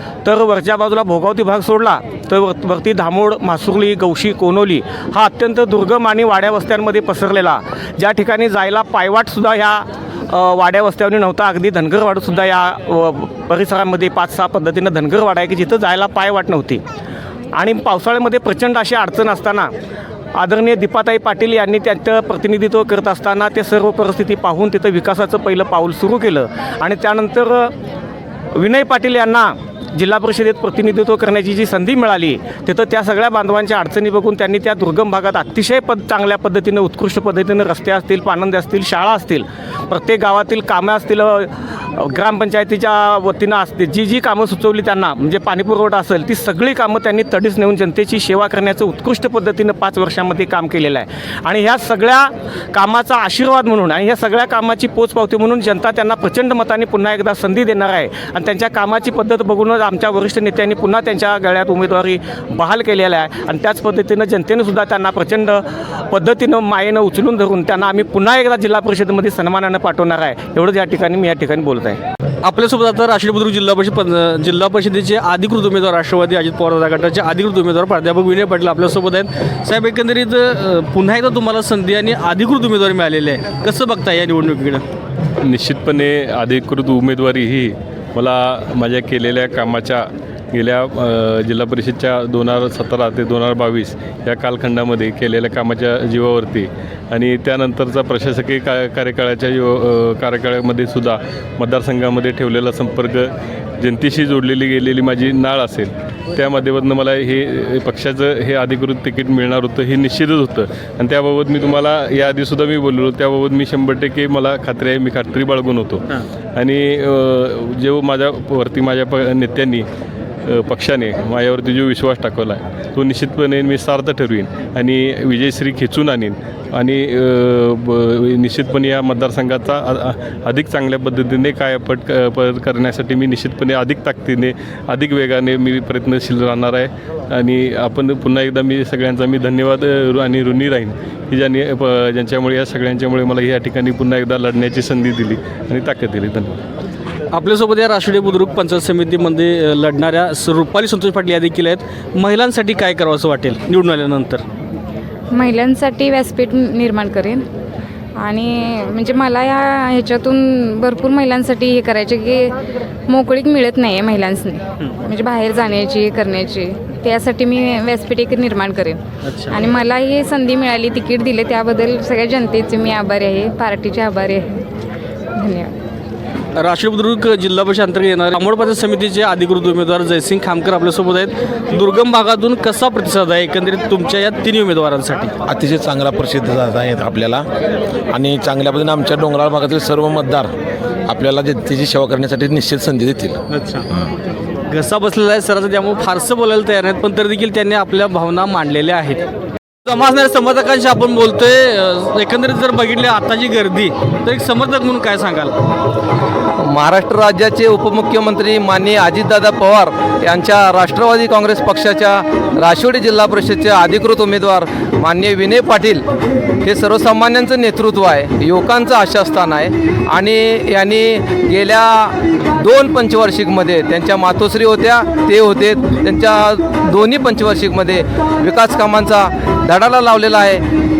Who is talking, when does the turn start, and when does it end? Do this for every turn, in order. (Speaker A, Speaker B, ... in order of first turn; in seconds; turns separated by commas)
Speaker A: 0.2-16.8, Speaker A: 17.6-19.7, Speaker A: 20.4-27.7, Speaker A: 28.6-72.0, Speaker B: 72.4-84.8, Speaker C: 85.4-119.8, Speaker C: 120.5-146.6, Speaker B: 147.3-154.4, Speaker D: 155.3-157.4, Speaker D: 158.2-162.6, Speaker D: 163.1-174.6, Speaker B: 169.2-169.5, Speaker D: 175.3-175.7, Speaker B: 176.6-185.3, Speaker E: 185.5-187.4, Speaker E: 188.1-190.5, Speaker E: 191.1-193.4, Speaker B: 193.5-193.8, Speaker B: 194.7-199.2, Speaker B: 199.9-205.5, Speaker F: 206.6-216.0, Speaker F: 216.6-230.6